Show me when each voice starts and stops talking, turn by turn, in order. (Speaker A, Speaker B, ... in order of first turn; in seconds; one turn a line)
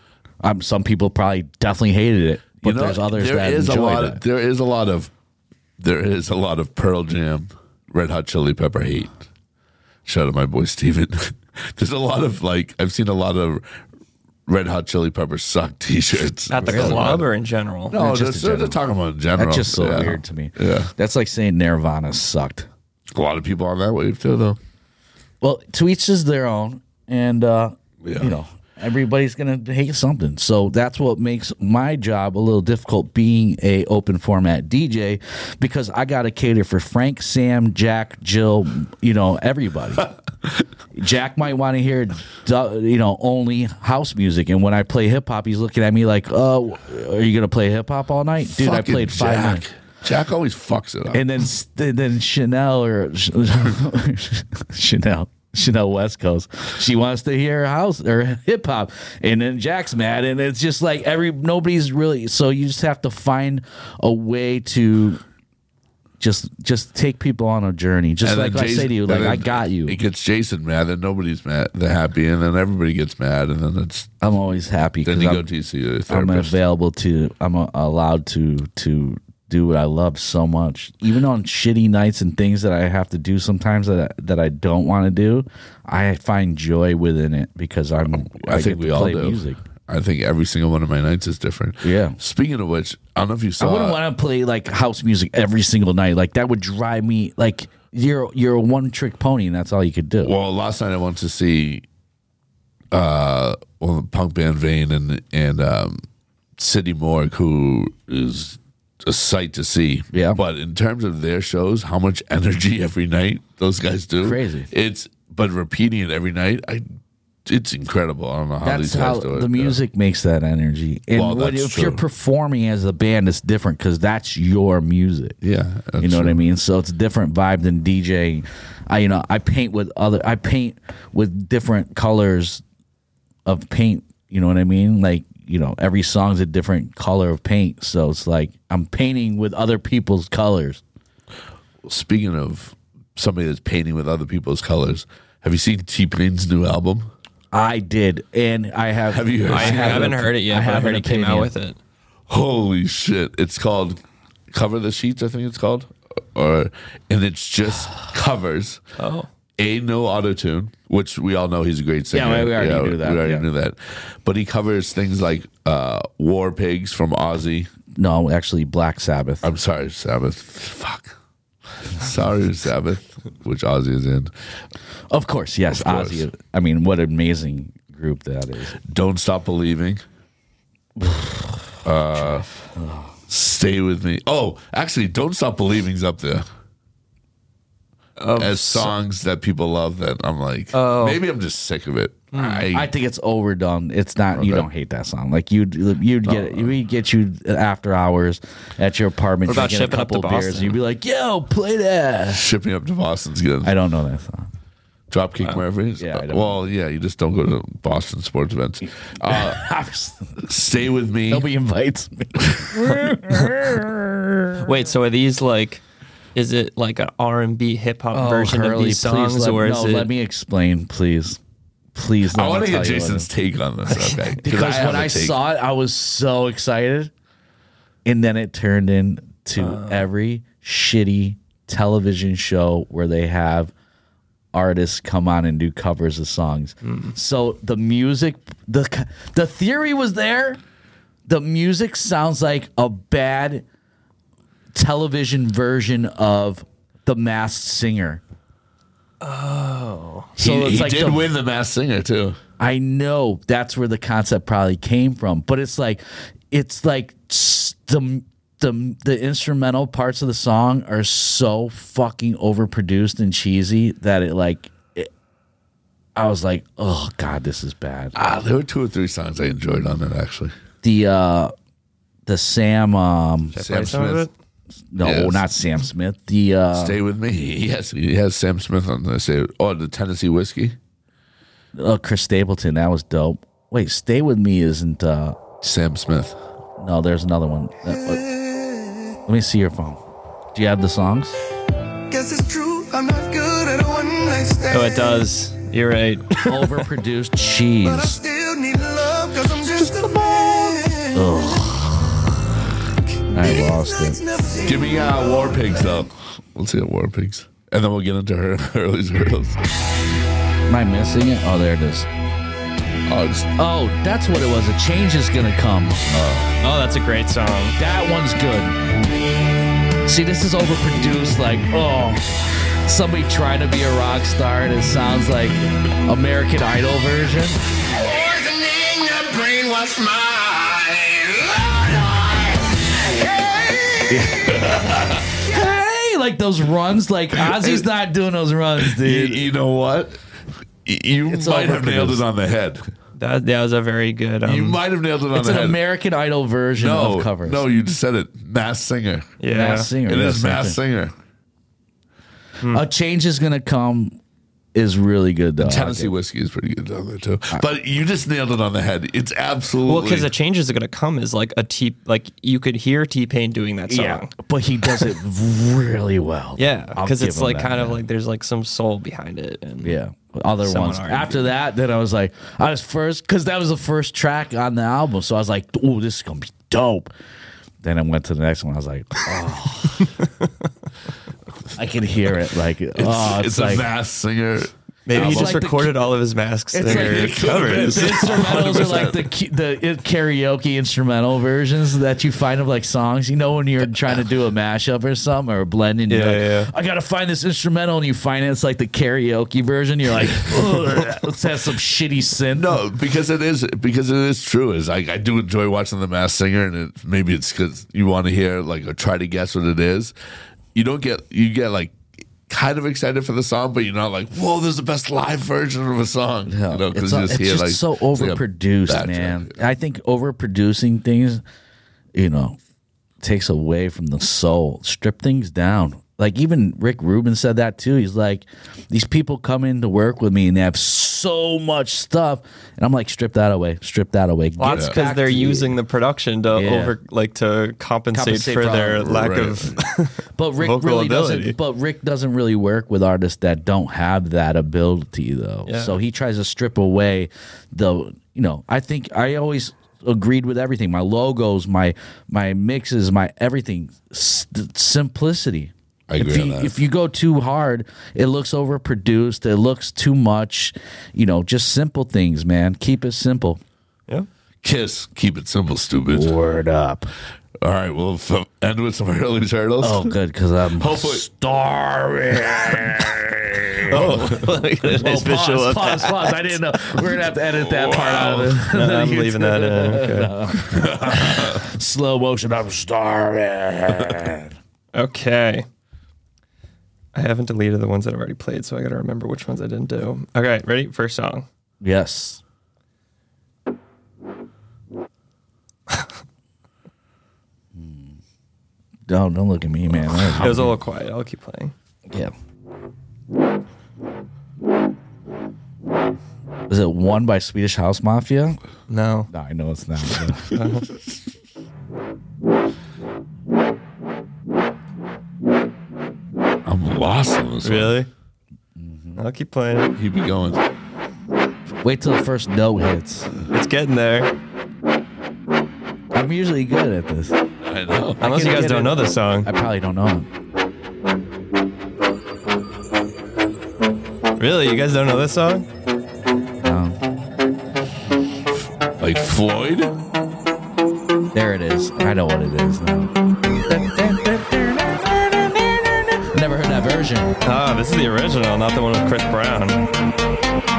Speaker A: 0.4-4.2
Speaker B: 2.6-5.1
Speaker B: 5.8-9.2
Speaker B: 10.1-13.6
Speaker B: 14.5-17.2
Speaker C: 16.5-18.0
Speaker A: 16.5-17.2
Speaker B: 17.9-20.9
Speaker A: 17.9-18.8
Speaker A: 19.4-22.7
Speaker B: 23.1-24.6
Speaker A: 25.4-40.1
Speaker B: 28.0-28.3
Speaker A: 40.9-49.6
Speaker B: 48.5-51.2
Speaker A: 51.1-65.2
Speaker A: 66.2-70.0
Speaker B: 68.2-74.1
Speaker A: 74.2-75.5
Speaker B: 75.0-76.6
Speaker A: 76.1-89.6
Speaker B: 88.3-94.0
Speaker A: 91.8-92.2
Speaker A: 93.6-100.3
Speaker B: 100.2-101.8
Speaker B: 102.9-106.0
Speaker B: 106.6-116.8
Speaker A: 110.1-110.4
Speaker A: 114.2-114.7
Speaker B: 117.5-119.8
Speaker A: 118.6-125.4
Speaker B: 121.2-122.0
Speaker B: 125.4-126.4
Speaker A: 126.0-132.6
Speaker A: 133.5-140.8
Speaker B: 141.8-147.1
Speaker A: 147.5-151.5
Speaker B: 149.1-150.3
Speaker C: 149.5-151.8
Speaker B: 152.3-154.0
Speaker B: 154.5-158.8
Speaker C: 159.0-159.3
Speaker B: 159.6-167.7
Speaker A: 162.1-163.4
Speaker A: 168.0-169.5
Speaker B: 169.4-171.2
Speaker B: 171.9-174.3
Speaker A: 175.1-178.8
Speaker B: 175.7-176.2
Speaker B: 178.8-180.0
Speaker A: 181.0-183.1
Speaker B: 181.8-182.5
Speaker B: 183.3-186.5
Speaker C: 188.2-188.9
Speaker B: 188.4-192.9
Speaker C: 190.7-191.2
Speaker C: 192.3-192.7
Speaker A: 192.7-202.4
Speaker B: 194.3-194.7
Speaker B: 196.3-196.7
Speaker C: 199.5-200.8
Speaker B: 202.3-203.8
Speaker A: 203.6-204.5
Speaker B: 205.1-209.6
Speaker A: 206.0-206.6
Speaker A: 209.3-210.3
Speaker B: 210.4-211.5
Speaker A: 211.3-214.7
Speaker C: 214.6-215.8
Speaker C: 216.3-220.1
Speaker A: 218.1-221.4
Speaker A: 221.9-223.3
Speaker B: 222.3-225.4
Speaker A: 224.4-227.1
Speaker A: 228.1-233.7
Speaker C: 229.6-230.1
Speaker A: 234.5-240.6
Speaker C: 236.8-237.2
Speaker A: 241.3-243.7
Speaker A: 244.7-248.2
Speaker C: 249.2-250.3
Speaker A: 250.4-251.3
Speaker B: 250.4-252.4
Speaker A: 252.6-265.1
Speaker A: 266.1-268.1
Speaker B: 268.1-270.5
Speaker A: 270.8-271.5
Speaker A: 272.3-273.6
Speaker C: 273.6-274.3
Speaker B: 273.6-274.3
Speaker A: 274.9-277.0
Speaker B: 275.0-275.5
Speaker B: 276.7-280.8
Speaker A: 281.8-285.4
Speaker B: 285.6-286.4
Speaker A: 286.8-288.2
Speaker A: 289.3-290.0
Speaker A: 290.6-291.4
Speaker D: 292.1-294.9
Speaker C: 294.7-296.9
Speaker A: 296.4-298.2
Speaker D: 298.1-301.0
Speaker A: 301.1-302.3
Speaker A: 303.3-304.2
Speaker B: 304.6-309.6
Speaker A: 310.7-312.1
Speaker B: 313.1-313.5
Speaker A: 313.6-316.0
Speaker B: 316.1-316.5
Speaker C: 316.6-317.8
Speaker A: 317.8-318.8
Speaker A: 320.1-327.6
Speaker B: 328.9-332.4
Speaker A: 334.1-339.5
Speaker B: 334.4-335.2
Speaker B: 337.4-337.9
Speaker B: 338.8-340.2
Speaker B: 340.8-342.9
Speaker A: 341.3-342.2
Speaker C: 343.2-344.8
Speaker B: 344.4-345.8
Speaker A: 345.3-347.6
Speaker B: 346.8-349.4
Speaker C: 349.4-349.9
Speaker A: 349.5-350.8
Speaker B: 350.0-351.1
Speaker A: 352.6-354.2
Speaker A: 354.8-356.1
Speaker B: 355.6-360.3
Speaker C: 359.9-364.3
Speaker A: 363.9-368.0
Speaker C: 364.8-365.1
Speaker C: 366.6-370.0
Speaker A: 369.8-377.1
Speaker C: 370.6-371.5
Speaker A: 377.8-380.1
Speaker A: 381.8-383.9
Speaker B: 383.0-385.6
Speaker C: 385.1-388.8
Speaker A: 385.1-386.0
Speaker A: 386.7-402.8
Speaker B: 386.8-389.3
Speaker C: 396.1-396.7
Speaker B: 400.2-401.0
Speaker B: 402.6-410.1
Speaker B: 410.7-419.6
Speaker A: 416.5-421.4
Speaker A: 422.1-422.6
Speaker A: 423.2-435.8
Speaker C: 434.6-441.6
Speaker B: 434.7-435.0
Speaker A: 436.5-437.0
Speaker A: 438.1-439.2
Speaker B: 439.0-439.8
Speaker A: 440.4-463.6
Speaker C: 445.7-445.9
Speaker B: 456.1-456.8
Speaker B: 464.6-466.3
Speaker A: 466.1-467.1
Speaker B: 467.6-470.1
Speaker A: 469.8-474.2
Speaker B: 470.8-471.2
Speaker C: 473.9-476.6
Speaker B: 473.9-474.4
Speaker A: 474.8-484.5
Speaker B: 477.4-478.6
Speaker C: 478.7-480.6
Speaker B: 480.7-481.6
Speaker C: 484.9-485.7
Speaker C: 487.1-491.5
Speaker A: 491.8-492.4
Speaker A: 497.8-498.1
Speaker A: 499.1-500.8
Speaker C: 500.4-501.7
Speaker A: 506.7-508.6
Speaker C: 508.9-509.3
Speaker A: 509.3-510.5
Speaker C: 510.5-510.9
Speaker B: 516.7-518.0
Speaker C: 517.6-518.1
Speaker A: 518.8-519.2
Speaker C: 519.2-520.0
Speaker B: 520.0-520.6
Speaker A: 521.8-523.3
Speaker C: 523.5-524.3
Speaker A: 526.1-527.4
Speaker B: 527.6-528.2
Speaker A: 528.2-530.3
Speaker C: 528.2-529.5
Speaker C: 534.4-535.7
Speaker A: 536.6-537.0
Speaker B: 539.0-540.0
Speaker A: 541.3-543.1
Speaker A: 543.7-547.4
Speaker C: 547.4-549.8